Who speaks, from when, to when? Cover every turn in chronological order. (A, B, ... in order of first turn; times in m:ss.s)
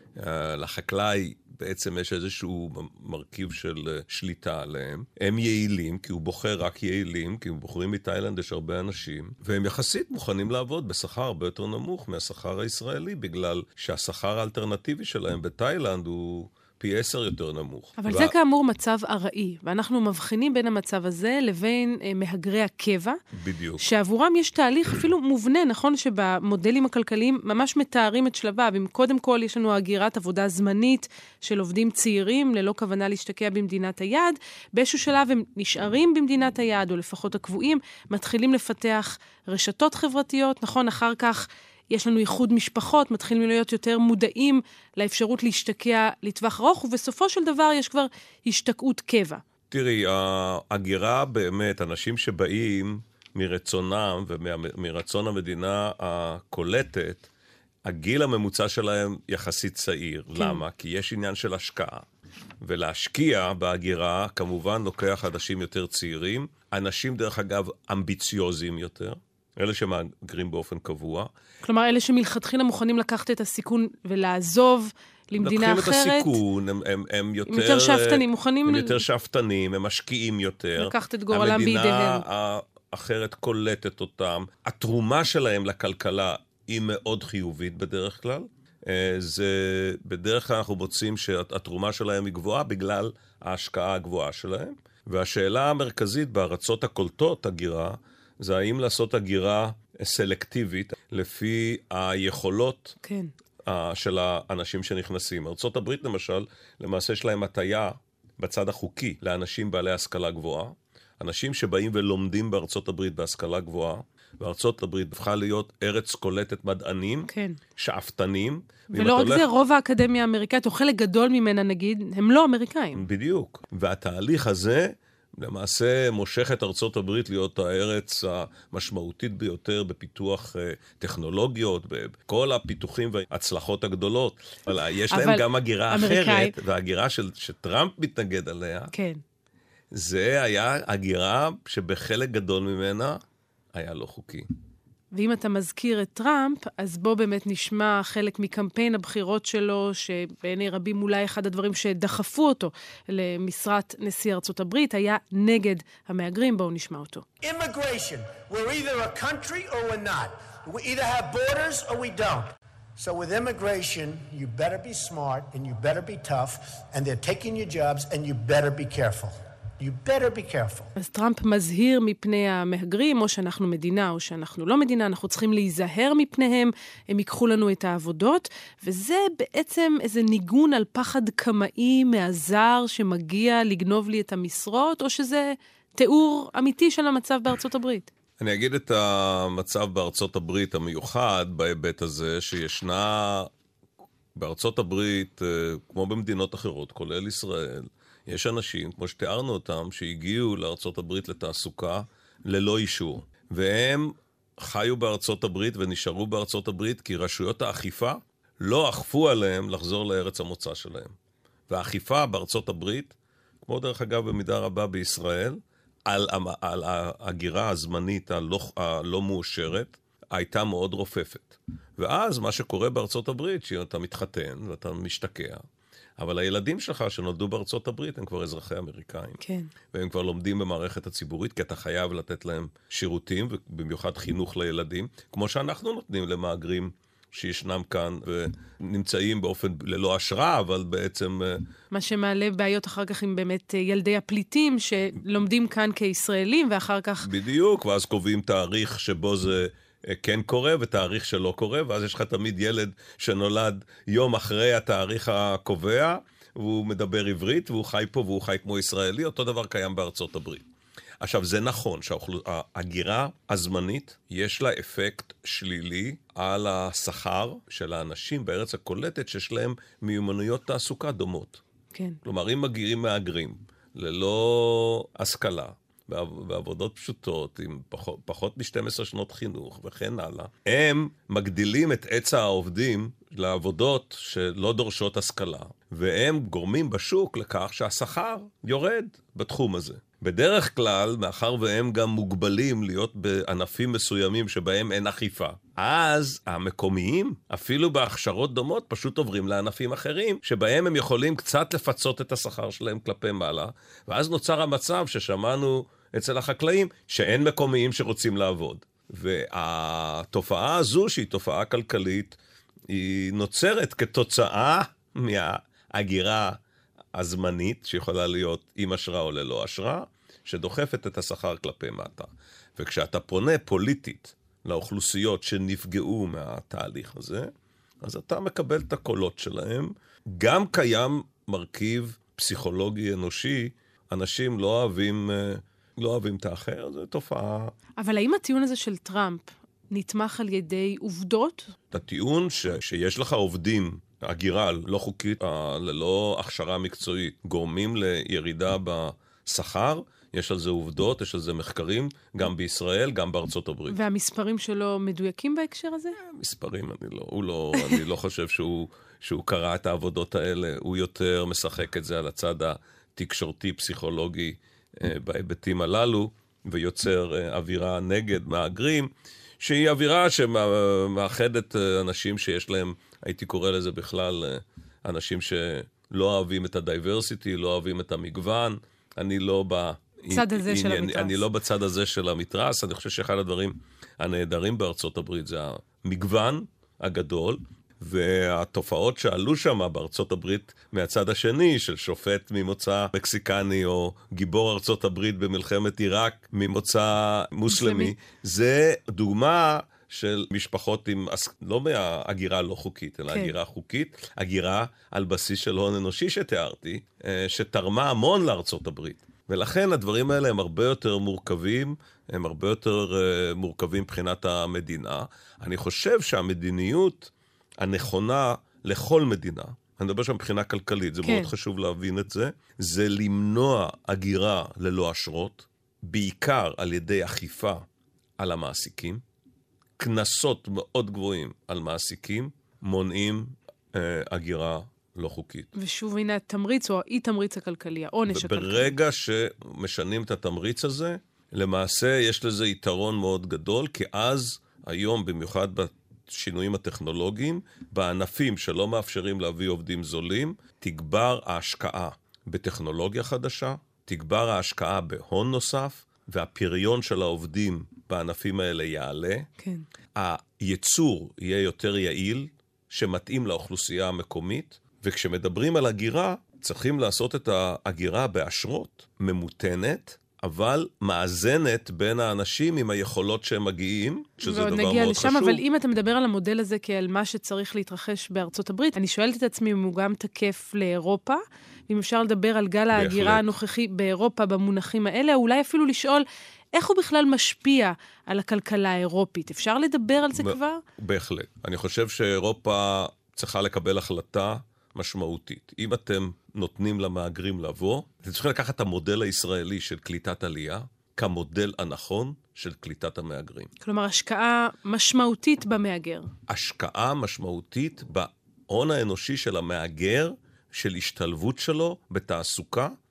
0:00.2-0:18.3 A
0:18.0-0:23.2 B
0:23.3-0:23.8 A
0:23.8-0:49.4 B
0:49.7-0:57.3 A
0:57.8-1:02.0 A
1:00.4-1:00.6 B
1:02.6-1:11.3 A
1:11.6-1:16.4 B
1:15.4-1:43.0 A
1:17.5-1:19.0 B
1:20.8-1:22.2 B
1:43.0-1:43.3 B
1:43.6-1:59.5 A
1:57.3-1:57.6 B
1:58.9-2:03.0 B
2:02.9-2:18.9 A
2:15.1-2:16.5 B
2:18.9-2:19.2 B
2:19.9-2:23.2 A
2:23.7-2:24.5 A
2:25.1-2:37.2 B
2:37.4-2:50.9 C
2:51.0-3:08.1 B
3:08.4-3:13.5 A
3:14.4-3:31.2 A
3:31.7-3:45.6 A
3:46.2-3:49.4 A
3:49.4-3:49.7 B
3:49.9-4:01.6 A
4:01.9-4:07.3 B
4:07.2-4:20.7 A
4:21.2-4:31.6 A
4:32.2-5:12.4 A
5:12.9-5:16.6 A
5:17.2-5:27.5 A
5:28.0-5:37.7 A
5:38.0-5:41.7 B
5:41.9-5:54.0 A
5:53.9-5:56.2 B
5:56.2-7:07.8 A
6:20.3-6:21.4 B
6:37.7-6:38.1 B
6:43.3-6:43.6 B
7:01.2-7:01.5 B
7:08.4-7:09.2 A
7:10.0-7:15.7 A
7:15.8-7:18.9 B
7:18.3-7:39.5 A
7:40.2-7:55.6 A
7:54.4-8:10.8 B
8:02.9-8:03.5 A
8:10.4-8:23.7 A
8:23.8-8:26.3 B
8:26.5-8:33.0 A